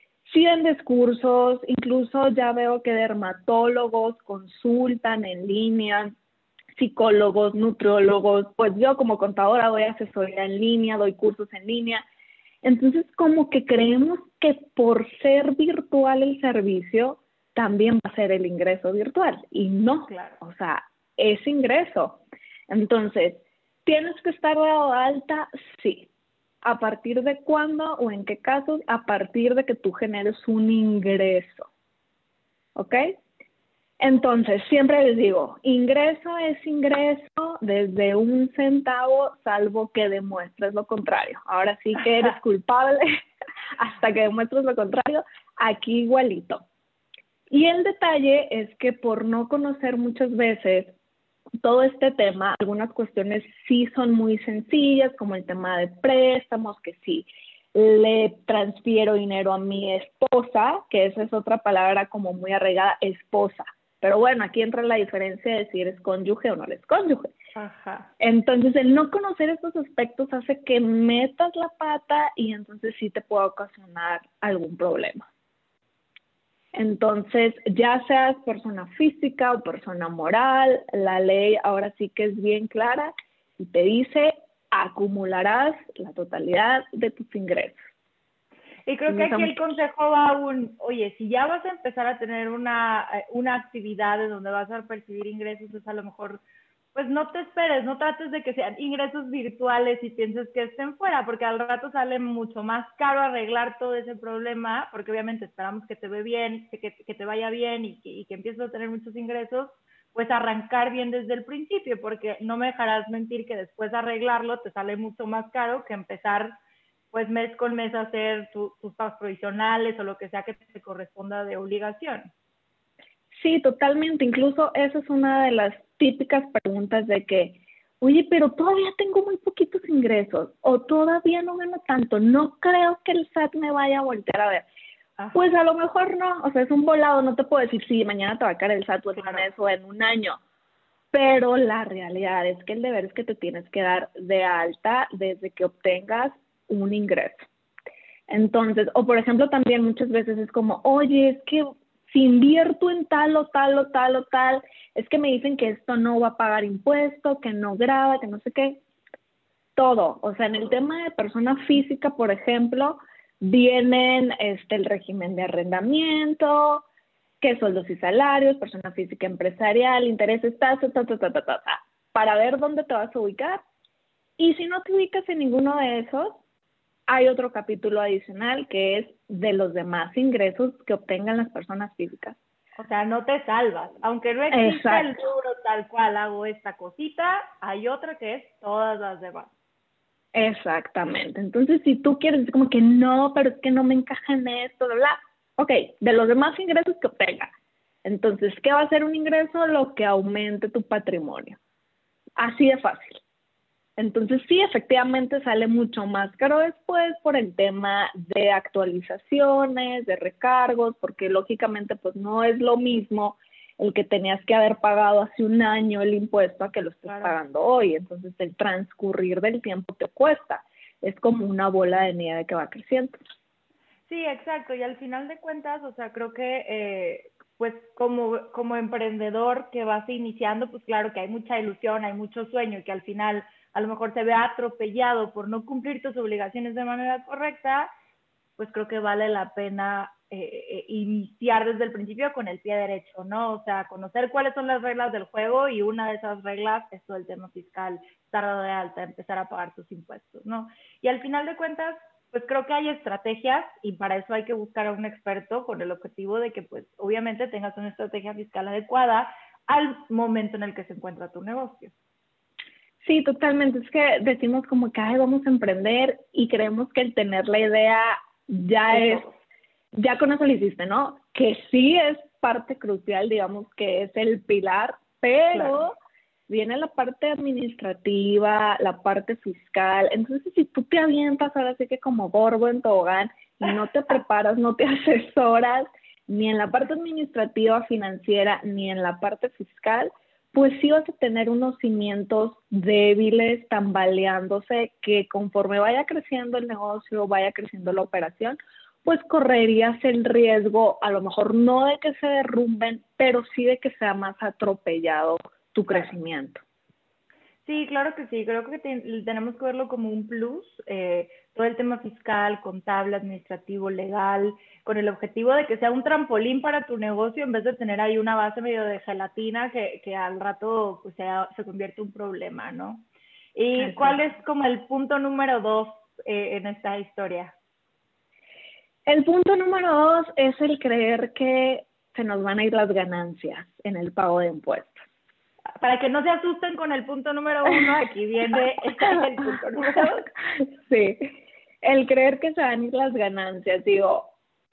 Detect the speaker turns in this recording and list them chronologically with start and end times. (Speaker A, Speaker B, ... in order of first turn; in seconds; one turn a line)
Speaker A: 0.2-6.1
Speaker A: 6.8-12.1
Speaker A: 12.6-26.1
Speaker B: 20.1-20.4
Speaker A: 26.6-31.7
Speaker A: 32.8-33.2
Speaker A: 34.0-43.2
Speaker A: 43.8-46.6
Speaker A: 47.5-50.9
Speaker A: 51.6-67.3
Speaker B: 67.6-68.1
Speaker A: 68.2-75.2
Speaker A: 76.7-87.8
Speaker B: 88.9-96.4
Speaker A: 89.1-89.6
Speaker B: 96.9-116.5
Speaker B: 117.1-122.3
Speaker A: 123.4-134.7
Speaker A: 135.3-140.4
Speaker B: 139.2-139.5
Speaker A: 141.1-147.5
Speaker A: 148.3-158.8
Speaker A: 159.8-166.9
Speaker A: 167.4-173.6
Speaker A: 174.4-176.4
Speaker A: 177.1-182.4
Speaker B: 182.8-189.5
Speaker A: 184.5-185.2
Speaker A: 190.3-197.5
Speaker A: 198.0-201.6
Speaker A: 202.4-203.2
Speaker A: 204.0-223.2
Speaker B: 217.1-217.4
Speaker B: 224.1-237.9
Speaker B: 238.6-261.9
Speaker A: 263.0-269.2
Speaker B: 268.9-269.4
Speaker A: 269.9-275.9
Speaker B: 275.5-275.9
Speaker A: 276.5-306.6
Speaker B: 307.7-323.1
Speaker B: 323.6-327.5
Speaker A: 323.8-324.2
Speaker A: 329.1-335.0
Speaker B: 335.8-340.3
Speaker A: 340.6-344.3